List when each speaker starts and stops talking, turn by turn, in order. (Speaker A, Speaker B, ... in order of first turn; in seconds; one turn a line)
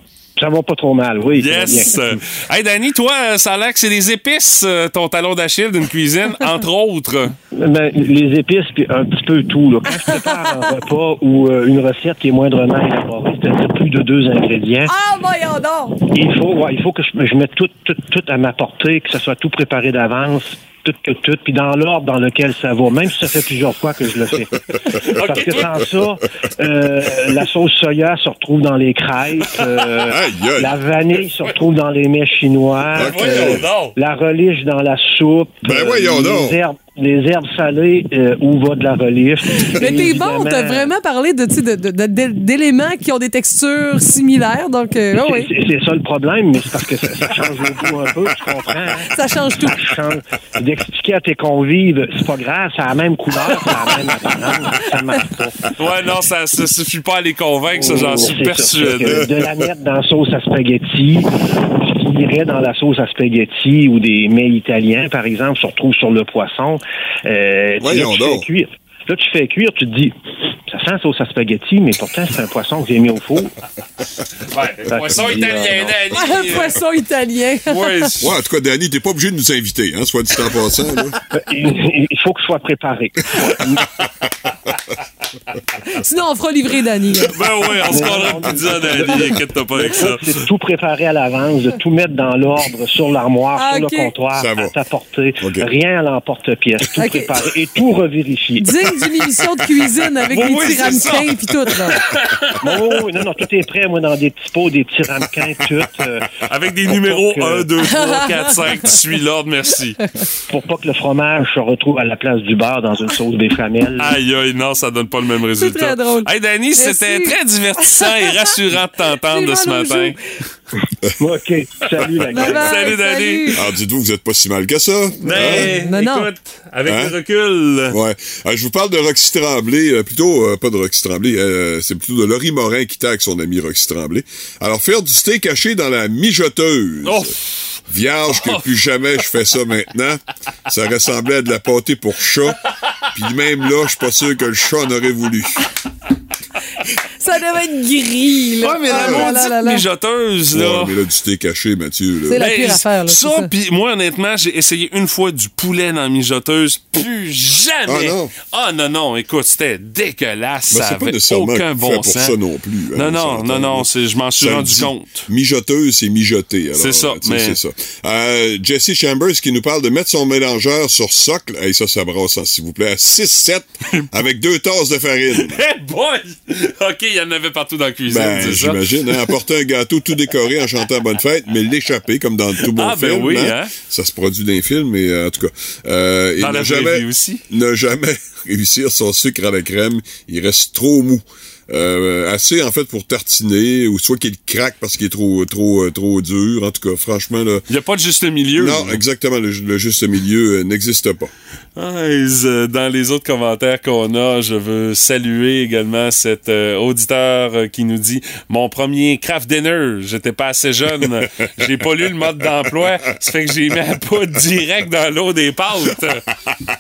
Speaker A: 0.4-2.2
Speaker B: 1.4-7.3
Speaker A: 7.5-14.9
Speaker C: 10.0-10.3
Speaker C: 14.9-16.0
Speaker A: 16.1-40.9
Speaker B: 25.1-25.7
Speaker D: 30.1-30.8
Speaker D: 33.0-33.7
Speaker B: 33.0-34.0
Speaker D: 35.6-36.6
Speaker C: 39.7-45.5
Speaker A: 45.2-49.1
Speaker C: 49.1-49.8
Speaker A: 49.6-55.6
Speaker B: 55.8-59.2
Speaker A: 57.8-70.2
Speaker D: 59.1-59.4
Speaker D: 67.8-68.5
Speaker A: 70.7-73.5
Speaker B: 74.5-76.8
Speaker A: 74.9-75.9
Speaker D: 75.2-75.9
Speaker C: 76.1-78.1
Speaker B: 77.7-78.3
Speaker D: 78.2-81.2
Speaker A: 81.3-83.8
Speaker C: 85.9-87.4
Speaker B: 87.3-90.4
Speaker A: 87.8-98.7
Speaker C: 93.6-94.1
Speaker D: 94.4-94.7
Speaker D: 95.4-95.7
Speaker C: 97.0-97.3
Speaker C: 98.6-102.1
Speaker B: 100.3-102.5
Speaker A: 102.6-106.3
Speaker B: 106.5-110.0
Speaker A: 106.9-107.7
Speaker C: 107.9-108.6
Speaker A: 110.5-114.2
Speaker B: 114.0-120.2
Speaker C: 115.6-118.5
Speaker C: 119.2-120.2
Speaker A: 121.2-122.9
Speaker C: 122.3-123.6
Speaker B: 122.4-123.6
Speaker D: 123.6-125.7
Speaker B: 125.2-128.0
Speaker C: 125.4-126.3
Speaker D: 126.9-127.2
Speaker D: 127.9-137.3
Speaker B: 137.1-137.3
Speaker D: 137.9-142.6
Speaker B: 138.4-138.7
Speaker D: 143.1-145.6
Speaker C: 147.2-149.8
Speaker B: 148.6-151.0
Speaker D: 148.9-149.3
Speaker D: 150.5-152.4
Speaker C: 152.3-153.5
Speaker B: 152.4-162.4
Speaker D: 157.9-158.3
Speaker D: 160.7-163.9
Speaker B: 162.9-165.3
Speaker D: 164.4-175.6
Speaker B: 166.8-167.6
Speaker B: 175.3-179.3
Speaker D: 178.1-197.7
Speaker B: 182.7-183.7
Speaker B: 186.4-187.4
Speaker B: 197.7-199.0
Speaker D: 198.6-201.3
Speaker B: 201.8-216.3